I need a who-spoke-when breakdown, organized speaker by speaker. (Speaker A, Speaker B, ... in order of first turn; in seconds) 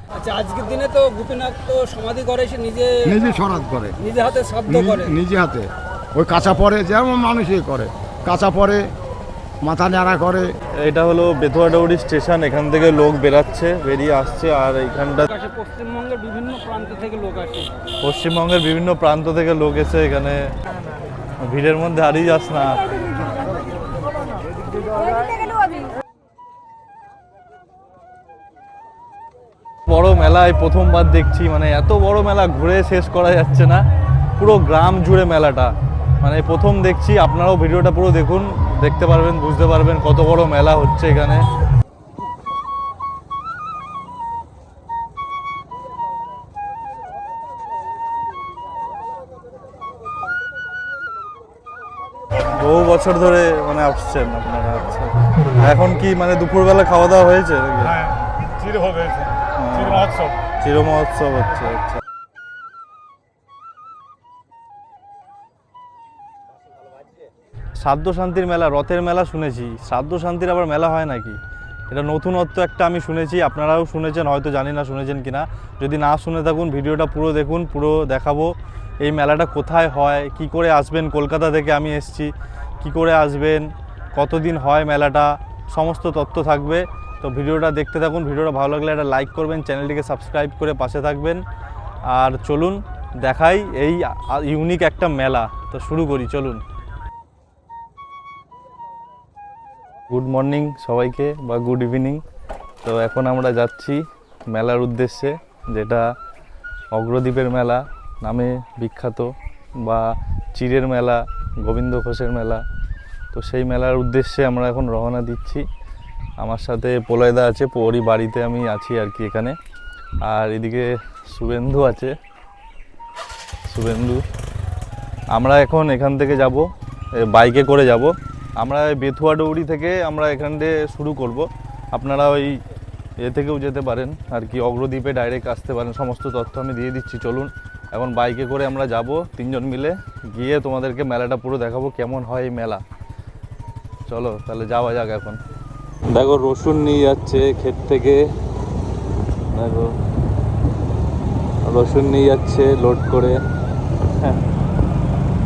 Speaker A: 0.1-3.2, 4.0-5.2, 15.2-17.8
Speaker B: 3.0-4.0, 4.7-8.9, 9.6-10.5
Speaker C: 10.8-15.3, 18.0-20.4, 21.4-22.8, 29.9-33.8, 34.4-41.4, 52.5-58.0, 59.6-60.0, 60.6-62.0, 67.8-71.4, 71.9-91.4, 92.1-96.6, 100.1-102.2, 102.8-106.1, 106.9-112.6, 113.3-115.6, 116.4-119.5, 120.2-122.1, 123.7-124.2, 125.3-132.6, 133.2-142.8, 144.1-145.4, 146.1-148.2, 149.5-149.9, 151.6-153.3
Speaker D: 57.8-60.4